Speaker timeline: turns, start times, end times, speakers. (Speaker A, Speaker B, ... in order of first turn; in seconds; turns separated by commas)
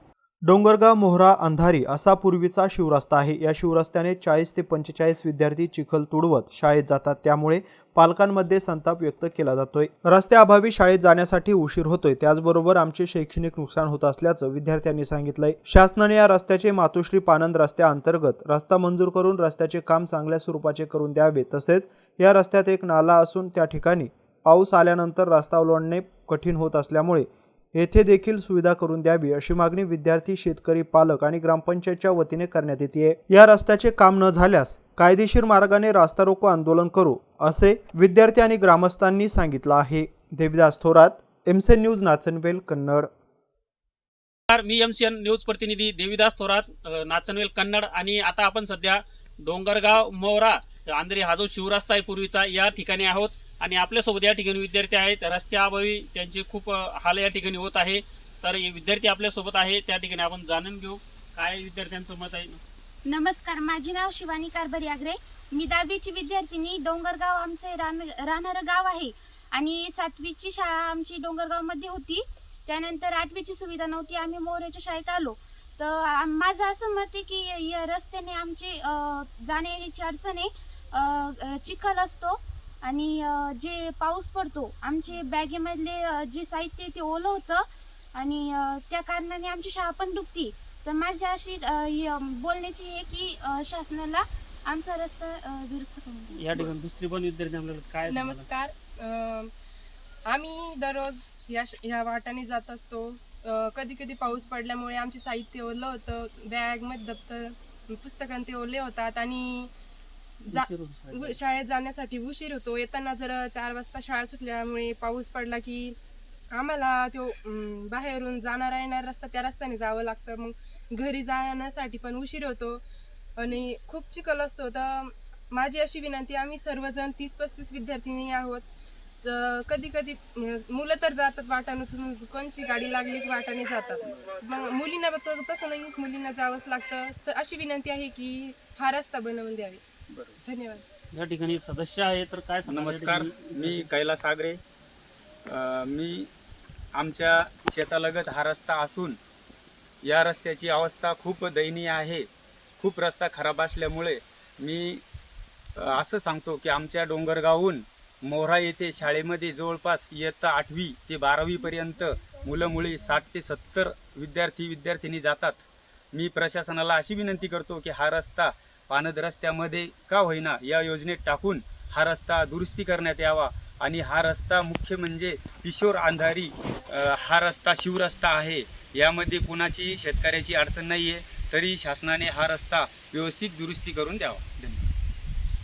Speaker A: 0.5-43.1, Speaker B: 44.5-62.6, Speaker C: 63.0-96.5, Speaker B: 96.3-98.5, Speaker D: 98.1-99.5, Speaker D: 100.3-109.7, Speaker D: 110.4-116.0, Speaker B: 110.5-111.3, Speaker D: 116.5-122.8, Speaker D: 123.4-128.7, Speaker D: 129.2-139.8, Speaker D: 140.4-140.8, Speaker B: 141.1-143.9, Speaker E: 142.6-144.6, Speaker E: 145.4-146.3, Speaker E: 146.9-149.2, Speaker E: 150.0-155.0, Speaker E: 155.8-184.9